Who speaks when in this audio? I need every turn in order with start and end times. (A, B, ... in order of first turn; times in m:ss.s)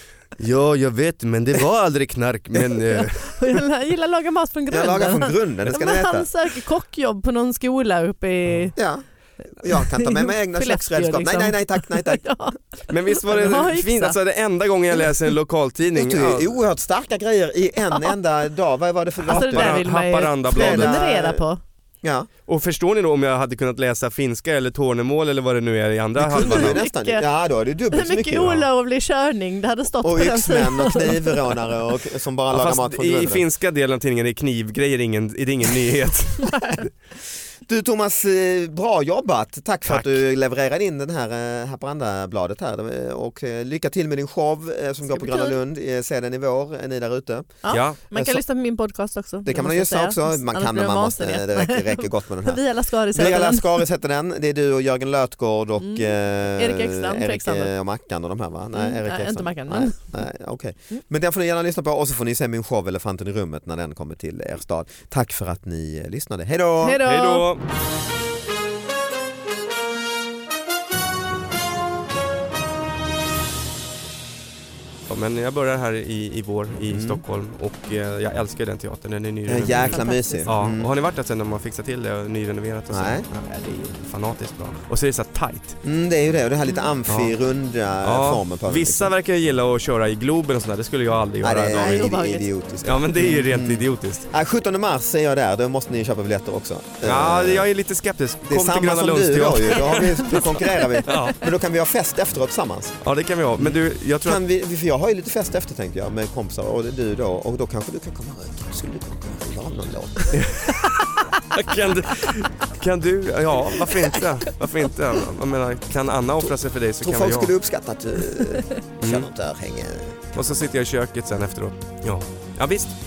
0:00.4-0:03.6 A
0:03.0-0:08.8 B
0:04.7-0:06.3 C
0:08.8-0:09.0 C
0:09.6-0:12.2 C
0:09.7-0:14.2 B
0:12.9-0:16.5 A
0:15.9-0:19.8 C
0:19.3-0:21.0 A
0:19.3-0:21.6 B
0:20.5-0:21.4 C
0:22.0-0:22.3 C
0:22.5-0:26.8 A
0:26.2-0:28.6 C
0:26.4-0:27.2 B
0:27.9-0:31.6 B
0:30.0-0:33.4 C
0:32.5-0:36.9 A
0:37.6-0:47.6 C
0:39.9-0:40.2 A
0:45.1-0:45.6 B
0:47.6-0:53.8 B
0:47.7-0:48.0 A
0:48.1-0:48.4 C
0:49.4-0:52.6 C
0:53.1-1:07.0 C
0:55.8-0:57.7 B
0:58.8-1:00.0 B
1:06.8-1:07.5 B
1:07.0-1:07.6 A
1:15.1-1:25.8 A
1:16.9-1:17.2 C
1:19.5-1:20.9 C
1:19.7-1:20.5 B
1:22.9-1:23.2 C
1:25.8-1:29.1 C
1:27.1-1:27.3 A
1:28.0-1:32.2 A
1:31.4-1:37.7 C
1:31.8-1:32.5 B
1:32.8-1:34.3 A
1:37.0-1:41.4 A
1:38.5-1:43.0 C
1:40.0-1:40.9 B
1:43.0-1:44.4 A
1:43.6-1:50.8 C
1:50.3-1:57.5 A
1:54.0-1:54.2 C
1:57.0-2:00.4 C
1:59.0-1:59.3 A
2:00.3-2:02.9 A